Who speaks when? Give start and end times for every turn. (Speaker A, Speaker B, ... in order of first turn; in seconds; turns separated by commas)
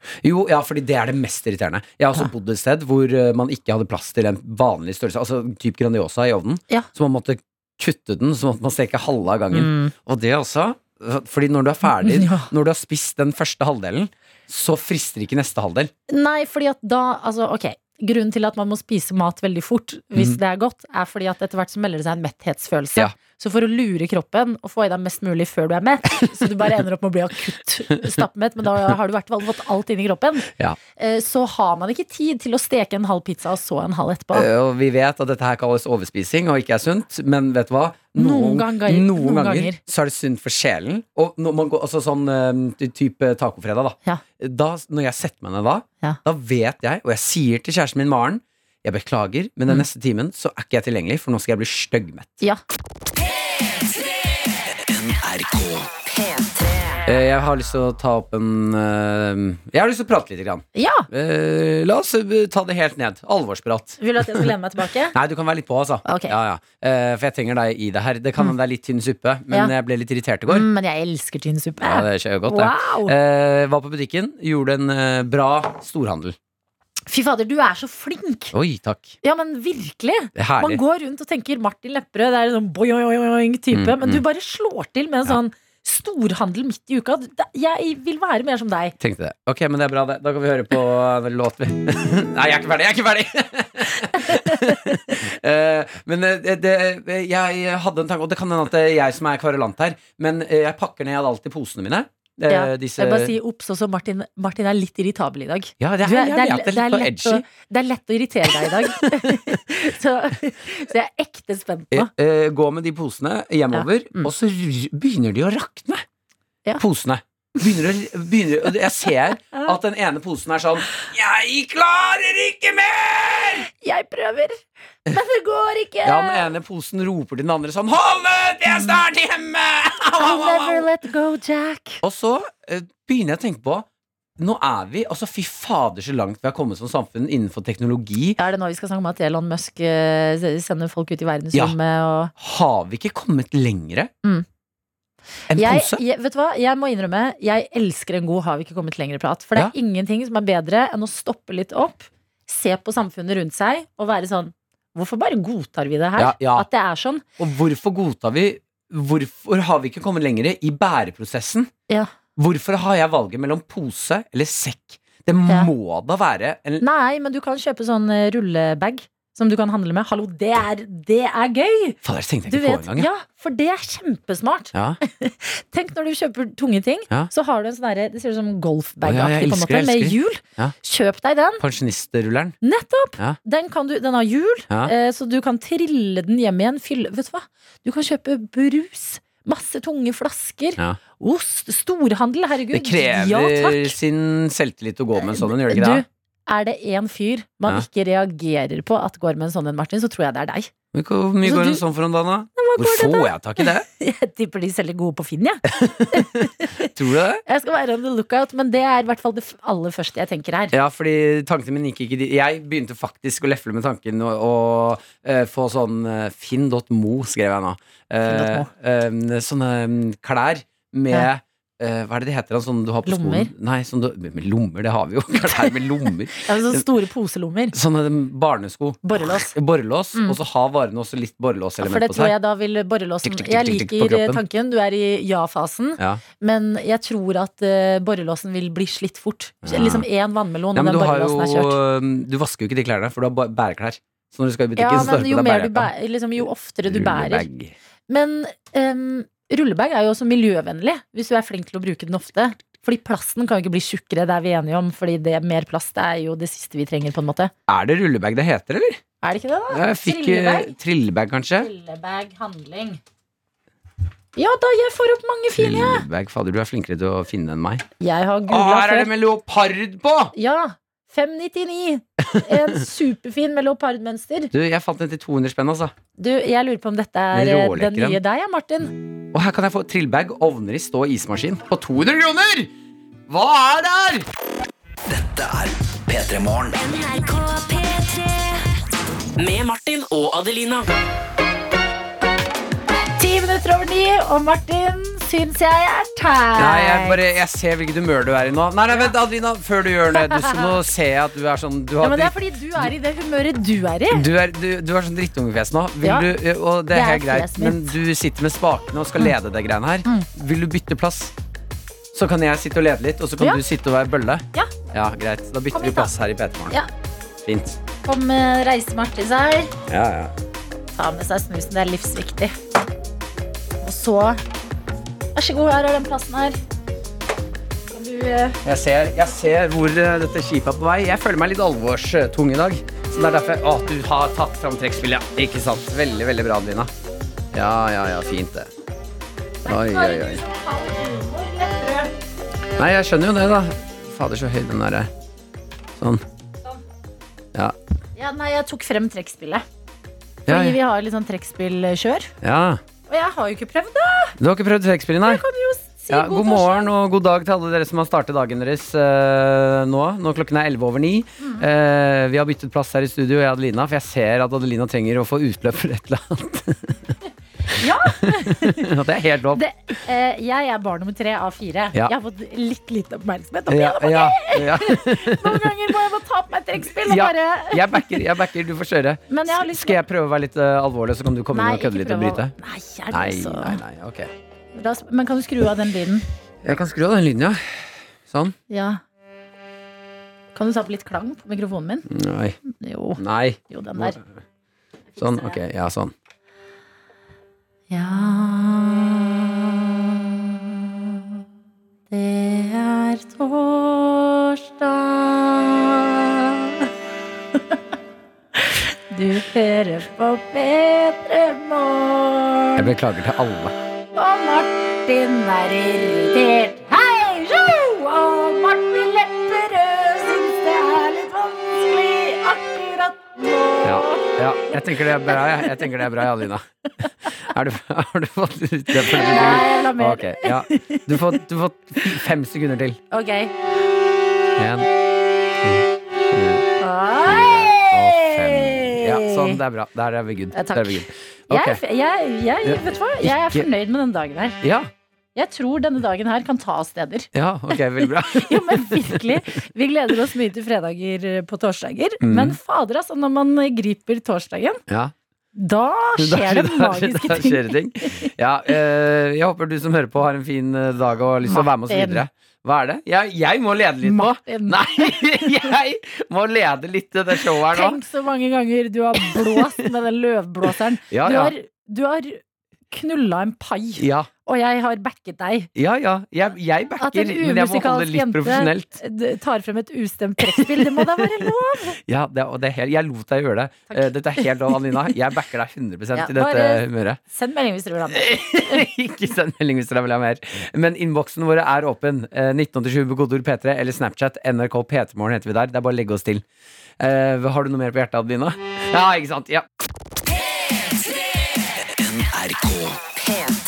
Speaker A: 0.2-15.9, Speaker B: 9.5-9.9, Speaker B: 11.9-12.5, Speaker B: 16.1-34.5, Speaker A: 34.3-52.4, Speaker B: 38.1-39.8, Speaker C: 54.9-56.0, Speaker A: 57.0-64.5, Speaker B: 60.8-61.1, Speaker B: 64.0-65.2, Speaker A: 65.1-70.7, Speaker B: 66.1-66.3, Speaker B: 70.5-73.1, Speaker A: 71.8-76.4, Speaker B: 77.1-78.5, Speaker A: 78.5-79.1, Speaker B: 79.2-89.0, Speaker A: 80.4-80.8, Speaker A: 83.7-84.2, Speaker A: 89.0-103.3, Speaker B: 94.2-95.2, Speaker B: 102.5-112.1, Speaker A: 105.8-107.4, Speaker A: 109.0-109.3, Speaker A: 111.9-116.0, Speaker B: 113.7-114.3, Speaker A: 116.8-123.7, Speaker B: 123.8-126.5, Speaker A: 126.0-130.8, Speaker B: 128.7-129.0, Speaker B: 130.2-132.0, Speaker A: 132.0-133.8, Speaker A: 134.4-138.4, Speaker B: 138.4-142.3, Speaker A: 142.4-144.1, Speaker A: 145.5-146.0, Speaker B: 145.5-157.2, Speaker A: 156.2-156.7, Speaker A: 157.4-161.7, Speaker A: 162.4-166.8, Speaker B: 166.8-181.6, Speaker A: 172.0-173.1, Speaker A: 174.7-175.0, Speaker A: 179.0-180.8, Speaker A: 181.6-182.6, Speaker B: 182.6-194.0, Speaker A: 192.7-196.1, Speaker B: 195.2-200.7, Speaker A: 200.9-203.9, Speaker B: 201.4-201.8, Speaker B: 202.6-206.9, Speaker A: 205.7-207.4, Speaker B: 207.5-210.8, Speaker A: 210.7-226.8, Speaker B: 218.2-218.7, Speaker B: 223.1-223.5, Speaker B: 225.5-225.8, Speaker B: 226.3-227.8, Speaker A: 227.7-232.3, Speaker B: 229.0-229.6, Speaker B: 231.8-241.8, Speaker A: 233.2-234.4, Speaker A: 239.7-240.1, Speaker A: 240.7-245.9, Speaker B: 244.8-247.5, Speaker A: 246.8-247.7, Speaker B: 248.1-257.5, Speaker A: 257.7-259.0, Speaker B: 259.2-260.8, Speaker A: 259.7-261.7, Speaker B: 261.6-263.0, Speaker B: 264.4-266.0, Speaker A: 265.6-267.8, Speaker B: 268.0-269.1, Speaker A: 268.5-270.3, Speaker B: 270.4-274.5, Speaker A: 272.3-272.8, Speaker A: 274.5-275.9, Speaker B: 276.2-278.9, Speaker A: 277.3-278.2, Speaker A: 279.3-282.7, Speaker A: 283.3-284.2, Speaker C: 285.1-286.8, Speaker D: 286.8-288.7, Speaker D: 289.4-290.9, Speaker B: 293.2-297.2, Speaker A: 296.6-302.9, Speaker B: 300.1-300.7, Speaker B: 302.0-304.2, Speaker A: 304.1-311.3, Speaker B: 306.0-306.3, Speaker B: 306.9-307.9, Speaker A: 312.1-316.8, Speaker B: 315.8-316.1, Speaker A: 317.4-317.8, Speaker B: 318.0-319.7, Speaker A: 319.9-320.3, Speaker B: 320.9-322.5, Speaker B: 323.8-324.4, Speaker B: 325.4-326.6, Speaker B: 327.9-328.6, Speaker A: 328.6-336.9, Speaker A: 337.5-338.7, Speaker A: 339.7-340.4, Speaker B: 339.7-342.1, Speaker A: 342.8-345.1, Speaker B: 348.2-349.6, Speaker A: 350.5-350.8, Speaker B: 350.5-352.3, Speaker A: 352.4-352.8, Speaker B: 353.1-354.4, Speaker A: 354.4-355.4, Speaker B: 355.2-356.9, Speaker A: 356.1-367.2, Speaker A: 367.7-369.6, Speaker B: 367.8-368.9, Speaker B: 369.5-378.2, Speaker A: 373.7-375.7, Speaker A: 377.0-382.5, Speaker B: 379.3-380.0, Speaker B: 381.5-383.8, Speaker A: 383.1-384.3, Speaker B: 384.8-386.3, Speaker A: 386.6-388.6, Speaker B: 388.7-389.0, Speaker B: 390.6-392.1, Speaker A: 392.1-392.6, Speaker B: 392.8-394.2, Speaker A: 393.2-394.2, Speaker A: 395.2-396.1, Speaker B: 395.2-395.6, Speaker B: 397.9-401.4, Speaker B: 402.1-406.9, Speaker B: 408.6-412.9, Speaker A: 412.8-413.8, Speaker B: 414.2-426.2, Speaker A: 423.8-426.7, Speaker A: 427.4-433.0, Speaker B: 429.1-431.4, Speaker B: 433.1-433.5, Speaker A: 434.6-434.9, Speaker A: 435.6-436.7, Speaker B: 436.8-439.6, Speaker A: 437.3-441.8, Speaker B: 440.5-444.6, Speaker A: 442.6-443.7, Speaker A: 444.6-444.9, Speaker B: 445.4-454.8, Speaker A: 447.4-449.4, Speaker A: 452.2-452.6, Speaker B: 455.6-458.3, Speaker A: 456.2-468.0, Speaker B: 461.4-462.2, Speaker B: 464.0-465.7, Speaker B: 467.6-475.7, Speaker A: 469.3-469.6, Speaker A: 471.1-471.5, Speaker A: 474.0-474.3, Speaker A: 475.8-479.0, Speaker B: 477.0-482.0, Speaker A: 482.1-487.2, Speaker B: 483.9-484.5, Speaker B: 486.1-488.8, Speaker A: 488.1-496.4, Speaker A: 497.0-499.7, Speaker C: 501.9-503.1